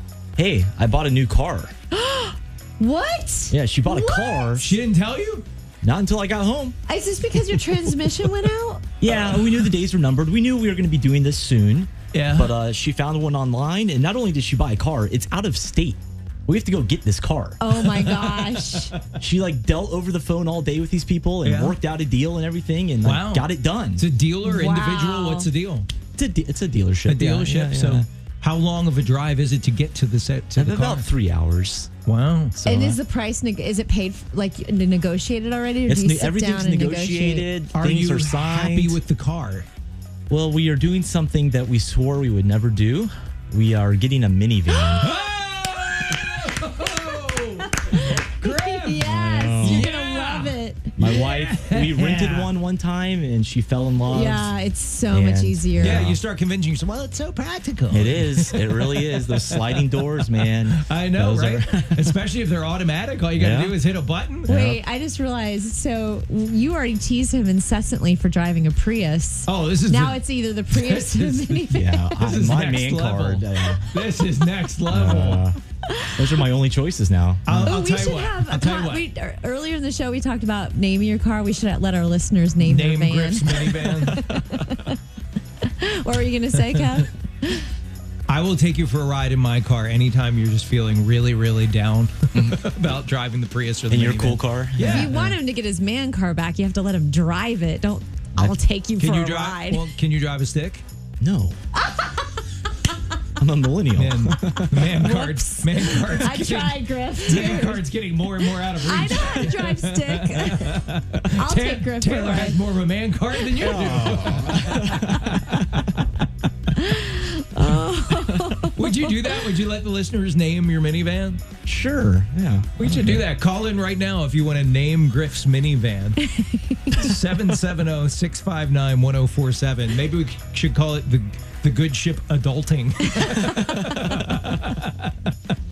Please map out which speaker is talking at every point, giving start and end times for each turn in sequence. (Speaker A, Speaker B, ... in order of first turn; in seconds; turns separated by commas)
Speaker A: 0.3-1.7, Speaker B: 1.9-4.6, Speaker A: 3.5-4.8, Speaker C: 4.6-5.5, Speaker A: 5.8-6.8, Speaker B: 6.9-8.8, Speaker A: 9.0-17.6, Speaker C: 9.0-9.6, Speaker C: 12.1-12.6, Speaker B: 17.6-18.9, Speaker C: 17.7-19.0, Speaker A: 19.1-24.1, Speaker C: 21.4-21.8, Speaker C: 23.0-25.9, Speaker B: 24.4-25.5, Speaker A: 26.2-28.1, Speaker C: 27.1-31.1, Speaker A: 30.6-31.9, Speaker C: 32.0-32.8, Speaker A: 32.6-33.0, Speaker B: 32.6-37.5, Speaker A: 35.9-39.0, Speaker C: 37.7-39.7, Speaker A: 40.3-45.1, Speaker C: 45.0-49.1, Speaker B: 46.8-47.0, Speaker B: 47.6-51.3, Speaker A: 49.0-49.9, Speaker C: 49.6-52.5, Speaker A: 51.0-54.5, Speaker B: 54.0-56.1, Speaker A: 55.1-56.2, Speaker C: 55.8-64.5, Speaker A: 57.9-62.1, Speaker A: 63.4-63.8, Speaker A: 64.4-64.8, Speaker B: 64.5-72.4, Speaker C: 69.5-75.5, Speaker A: 71.7-73.8, Speaker A: 74.9-75.6, Speaker B: 75.9-76.2, Speaker A: 76.1-77.8, Speaker C: 77.5-79.0, Speaker B: 77.6-85.0, Speaker C: 82.6-84.7, Speaker B: 85.6-87.7, Speaker C: 86.7-87.0, Speaker C: 88.3-95.2, Speaker A: 92.3-92.6, Speaker A: 93.9-95.4, Speaker B: 94.8-99.8, Speaker C: 99.0-100.8, Speaker A: 101.2-101.6, Speaker B: 101.7-102.5, Speaker A: 103.4-104.8, Speaker C: 103.9-116.1, Speaker B: 104.3-107.8, Speaker B: 108.4-112.6, Speaker A: 113.5-115.8, Speaker B: 116.8-119.2, Speaker C: 118.3-121.4, Speaker A: 121.7-123.2, Speaker C: 122.8-126.3, Speaker B: 126.2-127.1, Speaker C: 126.9-135.3